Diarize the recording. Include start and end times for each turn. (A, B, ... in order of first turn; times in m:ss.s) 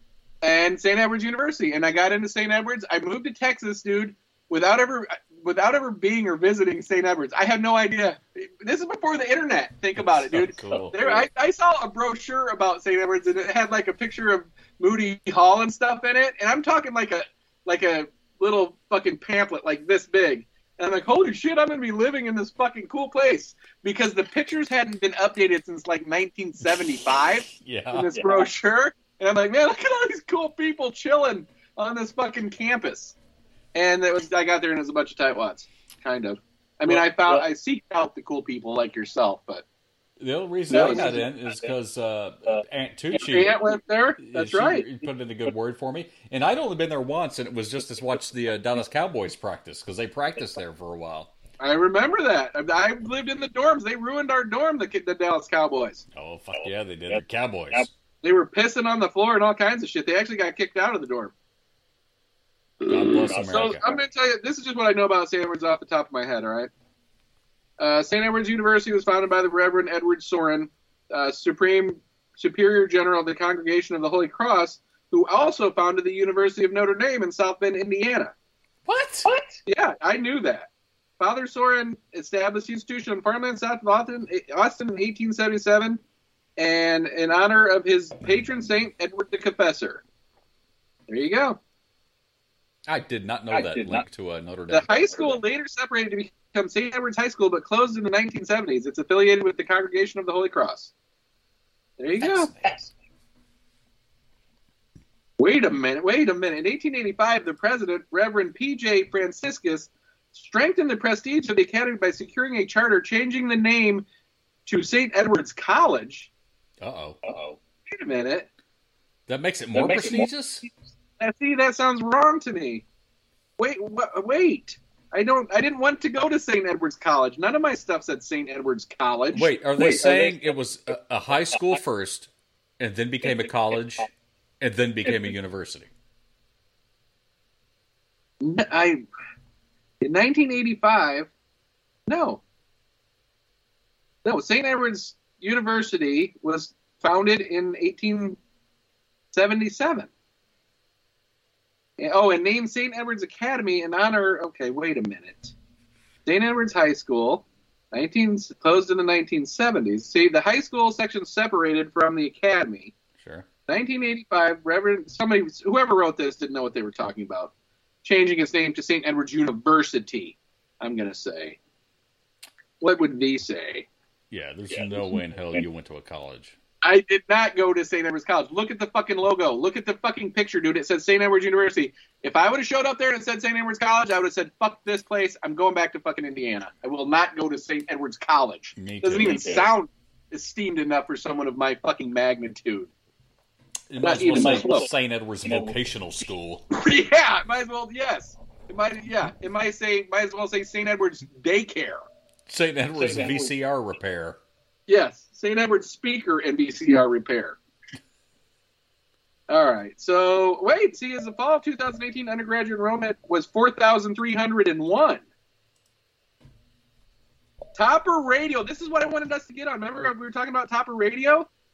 0:00.4-0:33.2 A
0:10.0-0:11.0 B
0:27.5-0:28.1 B
0:28.1-0:28.5 C
0:33.7-0:39.6 A
0:40.2-0:43.6 B
0:40.7-0:41.7 C
0:40.7-0:41.2 A
0:43.2-0:44.9 A
0:44.2-0:51.3 B
0:51.6-0:56.0 A
0:56.2-0:57.9 B
0:56.6-0:57.9 C
0:58.2-1:01.3 A
1:02.9-1:03.8 B
1:03.2-1:04.0 C
1:03.5-1:06.7 A
1:07.8-1:18.3 A
1:18.9-1:19.3 B
1:19.2-1:19.6 C
1:19.7-1:20.7 A
1:21.2-1:26.0 A
1:26.6-1:30.0 A
1:31.1-1:31.6 A
1:32.9-1:35.2 B
1:33.5-1:34.0 C
1:34.7-1:40.9 A
1:35.0-1:35.4 C
1:42.0-1:42.5 A
1:42.2-1:42.6 B
1:42.6-1:42.9 C
1:45.4-1:54.0 A
1:54.7-1:56.3 A
1:56.8-1:57.2 B
1:57.2-1:57.6 C
1:57.9-1:58.5 A
1:59.3-2:00.7 B
1:59.7-2:00.3 C
2:01.2-2:02.8 A
2:03.6-2:09.5 A
2:09.3-2:14.1 B
2:09.8-2:10.5 C
2:14.6-2:15.9 B
2:18.4-2:19.0 A
2:20.0-2:21.3 A
2:22.1-2:22.4 A
2:24.2-2:28.4 A
2:29.3-2:30.1 A
2:32.0-2:35.5 A
2:36.3-2:42.9 A
2:43.2-2:43.5 B
2:43.7-2:47.5 A
2:48.0-2:51.6 A
2:52.8-2:53.9 A
2:54.3-2:56.6 B
2:54.7-2:55.6 C
2:56.8-3:12.9 A
3:08.8-3:09.6 B
3:09.2-3:09.7 C
3:13.9-3:16.7 B
3:14.0-3:14.9 A
3:14.3-3:14.9 C
3:15.4-3:15.8 C
3:16.7-3:22.0 A
3:22.5-3:24.4 B
3:23.0-3:23.5 C
3:24.9-3:27.6 A
3:29.5-3:35.2 A
3:37.8-3:41.5 A